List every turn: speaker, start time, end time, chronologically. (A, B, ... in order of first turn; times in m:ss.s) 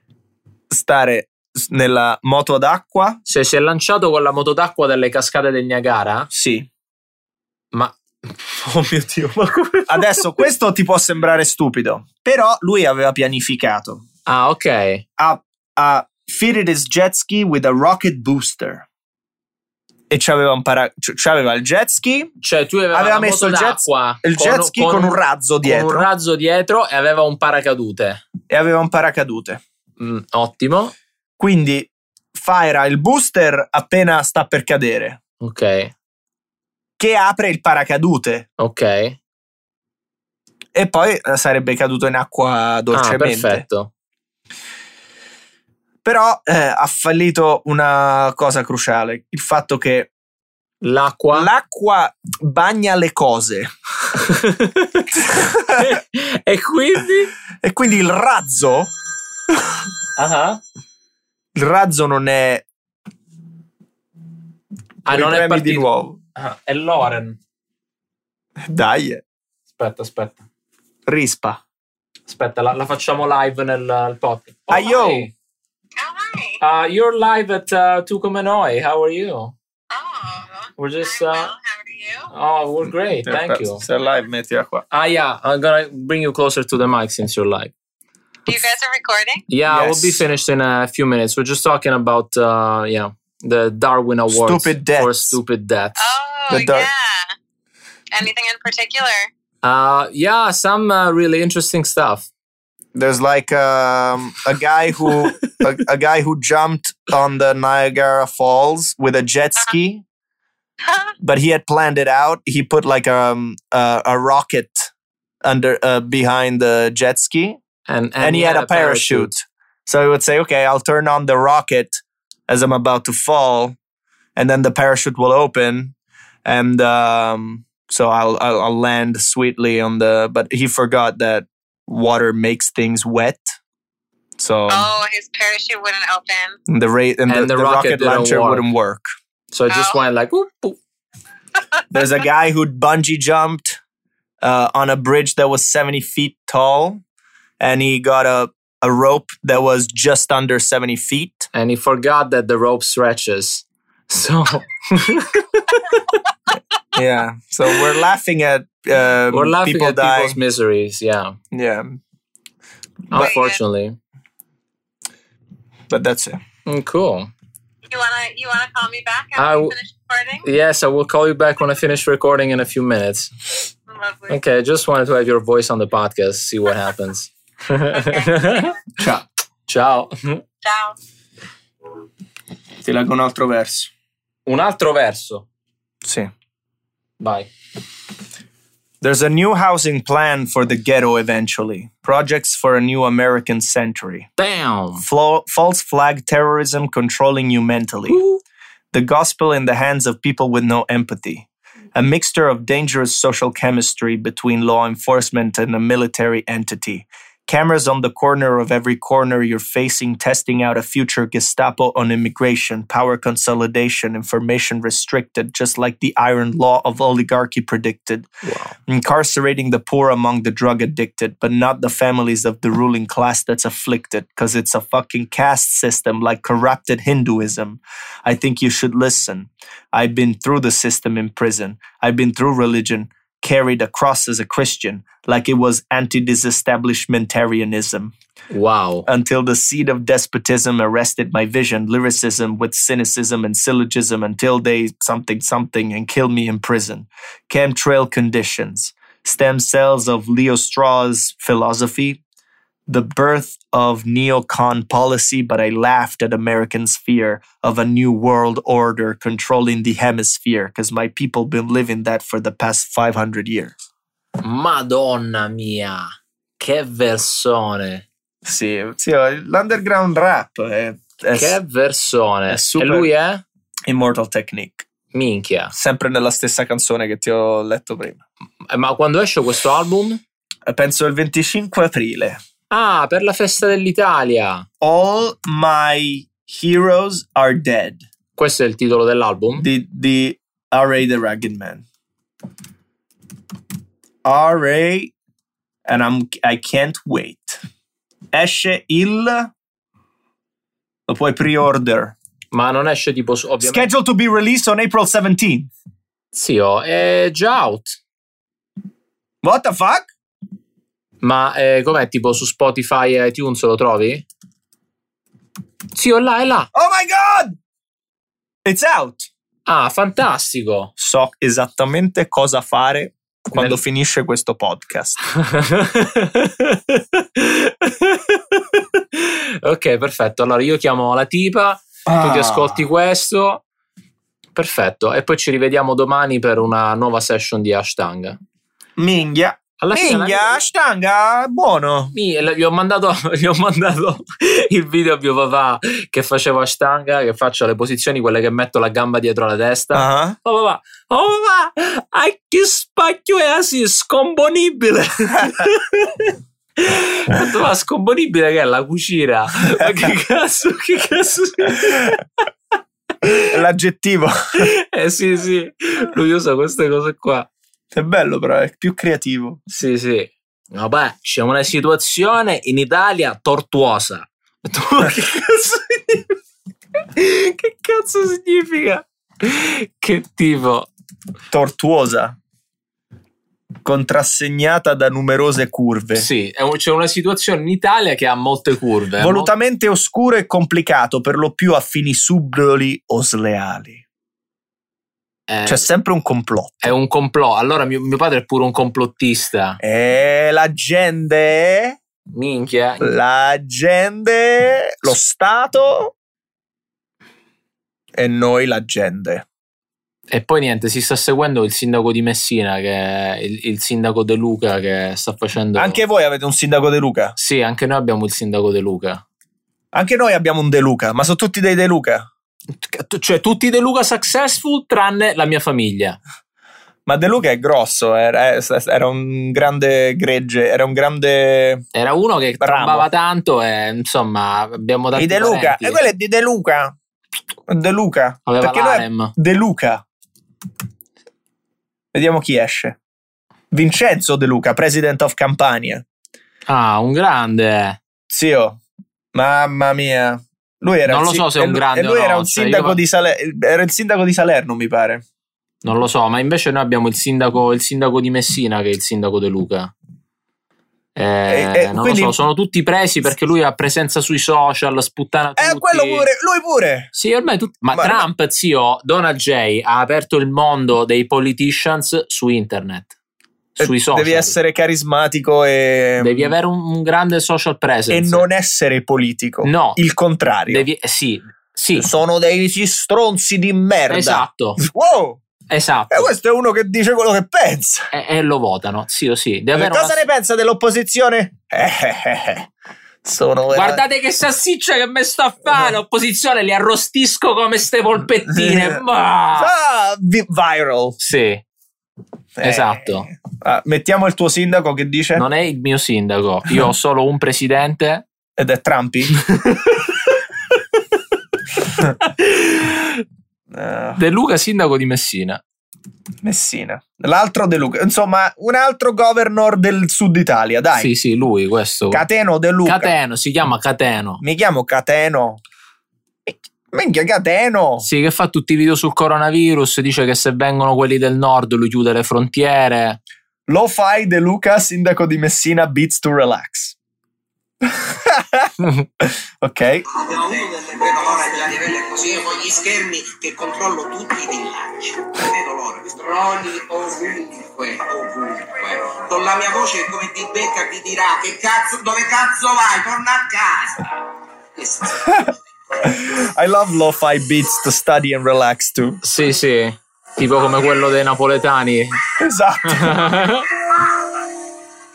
0:00.7-0:03.2 A
0:03.2-0:06.3 B
0:06.3-0:06.7 A
0:08.6-0:08.9 B
0:08.9-0:14.0 A
0:09.5-0:10.2 B
0:14.3-0:15.0 B
0:15.2-0:18.8 A
0:20.1-0:22.3 A
0:22.4-0:28.2 B
0:22.9-0:26.1 A
0:28.5-0:29.6 A
0:30.0-0:30.9 B
0:31.4-0:35.2 A
0:35.4-0:35.9 B
0:37.0-0:38.4 A
0:38.6-0:39.2 B
0:40.7-0:43.6 A
0:42.9-0:43.9 B
0:46.0-0:50.1 A
0:50.8-0:51.5 B
0:51.3-0:53.7 A
0:54.1-0:57.3 B
0:55.2-0:55.9 A
0:57.6-0:58.9 A
0:59.5-0:59.8 A
1:00.2-1:00.6 B
1:01.5-1:02.6 A
1:05.0-1:07.4 B
1:05.0-1:06.2 A
1:08.6-1:09.2 A
1:09.7-1:10.4 B
1:11.0-1:11.6 A
1:12.3-1:15.3 B
1:14.7-1:15.3 A
1:16.0-1:16.6 C
1:16.6-1:19.5 B
1:19.9-1:22.3 C
1:20.8-1:21.5 B
1:22.3-1:23.8 B
1:23.2-1:24.8 A
1:24.9-1:27.7 B
1:28.5-1:29.4 C
1:29.5-1:36.1 B
1:29.7-1:30.2 A
1:34.3-1:35.4 A
1:36.0-1:37.3 C
1:36.5-1:36.9 A
1:38.1-1:39.3 C
1:39.6-1:42.3 B
1:42.9-1:50.0 A
1:51.2-1:54.9 A
1:55.4-1:57.6 A
1:57.9-1:59.3 B
1:58.2-2:03.8 A
2:04.4-2:05.9 A
2:06.4-2:13.6 A
2:14.4-2:14.9 A
2:14.7-2:16.6 C
2:16.7-2:19.1 A
2:17.3-2:18.7 B
2:19.5-2:20.8 B
2:19.7-2:20.0 C
2:21.9-2:23.8 A
2:24.4-2:27.0 A
2:27.6-2:31.5 A
2:31.5-2:36.2 B
2:36.9-2:40.4 A
2:39.3-2:41.4 B
2:41.5-2:42.0 A
2:43.1-2:44.0 B
2:43.1-2:43.6 C
2:45.9-2:46.4 A
2:46.6-2:47.3 B
2:47.9-2:50.4 C
2:49.4-2:49.8 B
2:50.4-2:53.3 B
2:53.9-2:54.4 C
2:54.3-2:58.7 B
2:57.9-2:58.8 C
2:59.0-2:59.2 A
2:59.7-3:00.4 B
3:00.6-3:01.0 C
3:02.8-3:03.9 A
3:04.5-3:05.4 B
3:06.0-3:06.3 A
3:07.2-3:07.5 B
3:09.0-3:14.3 A
3:14.4-3:15.0 B
3:15.0-3:18.2 A
3:18.1-3:18.4 B
3:18.9-3:38.3 A
3:38.4-3:38.7 B
3:38.8-3:58.1 A
3:58.5-3:59.1 B
3:59.1-4:12.2 A
4:12.9-4:23.7 A
4:24.4-4:28.0 B
4:28.4-4:31.6 A
4:31.3-4:33.4 B
4:32.5-4:33.1 A
4:33.9-4:34.8 A
4:35.1-4:35.7 B
4:35.7-4:38.2 A
4:38.7-4:40.2 B
4:40.6-4:42.4 A
4:42.7-4:44.6 B
4:44.8-4:48.0 A
4:48.4-4:49.6 B
4:49.6-4:51.8 A
4:54.2-4:55.1 A
4:55.8-4:57.6 A
4:58.3-4:59.5 A
5:01.1-5:02.1 A
5:02.5-5:03.9 B
5:03.6-5:05.7 A
5:06.3-5:08.0 B
5:09.4-5:10.1 A
5:11.2-5:14.2 B
5:15.9-5:16.7 B
5:16.7-5:17.6 A
5:18.6-5:19.3 A
5:19.7-5:20.9 B
5:21.0-5:25.2 A
5:25.4-5:33.6 B
5:32.0-5:32.8 A
5:34.5-5:38.4 B
5:39.0-5:42.1 A
5:39.8-5:40.6 B
5:42.1-6:02.2 B
5:49.9-5:50.4 A
6:03.2-6:04.7 A
6:04.6-6:07.5 B
6:07.9-6:09.6 A
6:09.7-6:16.2 B
6:17.1-6:20.9 B
6:21.5-6:22.3 A
6:23.8-6:26.2 A
6:26.1-6:29.5 B
6:29.2-6:34.0 A
6:35.5-6:35.8 B
6:35.6-6:36.8 A
6:36.8-6:39.8 B
6:39.8-6:42.0 A
6:42.3-6:43.1 B
6:43.0-6:46.1 A
6:48.1-6:49.4 A
6:50.3-6:56.0 B
6:55.8-6:57.3 A
6:57.4-6:59.2 B
6:59.9-7:02.3 A
7:02.7-7:06.2 B
7:07.0-7:11.8 A
7:11.9-7:16.0 B
7:12.6-7:13.1 A
7:15.2-7:16.9 A
7:17.7-7:20.0 A
7:18.4-7:19.3 B
7:22.1-7:23.0 A
7:23.7-7:26.0 A
7:26.7-7:28.0 B
7:28.3-7:28.8 A
7:29.3-7:35.2 A
7:31.1-7:33.0 B
7:35.8-7:39.9 B
7:41.1-7:46.3 B
7:41.5-7:42.4 A
7:45.6-7:47.1 A
7:47.1-7:53.1 B
7:47.9-7:48.2 A
7:53.8-7:56.5 A
7:53.8-7:54.6 B
7:56.2-7:58.5 B
7:58.1-8:00.9 A
7:59.6-8:00.0 B
8:00.7-8:02.1 B
8:02.0-8:05.4 A
8:04.1-8:04.8 B
8:05.7-8:06.3 B
8:06.1-8:08.1 A
8:08.1-8:10.2 B
8:09.7-8:12.7 A
8:13.2-8:14.0 A
8:13.7-8:19.7 B
8:18.5-8:19.0 A
8:19.5-8:21.2 A
8:21.2-8:21.6 B
8:22.6-8:25.4 A
8:22.6-8:23.3 B
8:25.4-8:28.2 B
8:28.6-8:29.4 A
8:32.2-8:33.2 B
8:33.7-8:34.2 A
8:34.2-8:35.6 B
8:36.4-8:41.1 A
8:41.0-8:42.2 B
8:42.1-8:43.1 A
8:42.8-8:44.4 B
8:44.4-8:45.6 A
8:46.4-8:48.0 A
8:48.0-8:53.2 B
8:53.7-8:57.0 A
8:57.8-9:00.0 A
9:00.1-9:14.1 D
9:14.8-9:15.5 D
9:16.0-9:19.2 A
9:19.2-9:22.2 B
9:22.4-9:23.2 A
9:22.8-9:23.7 B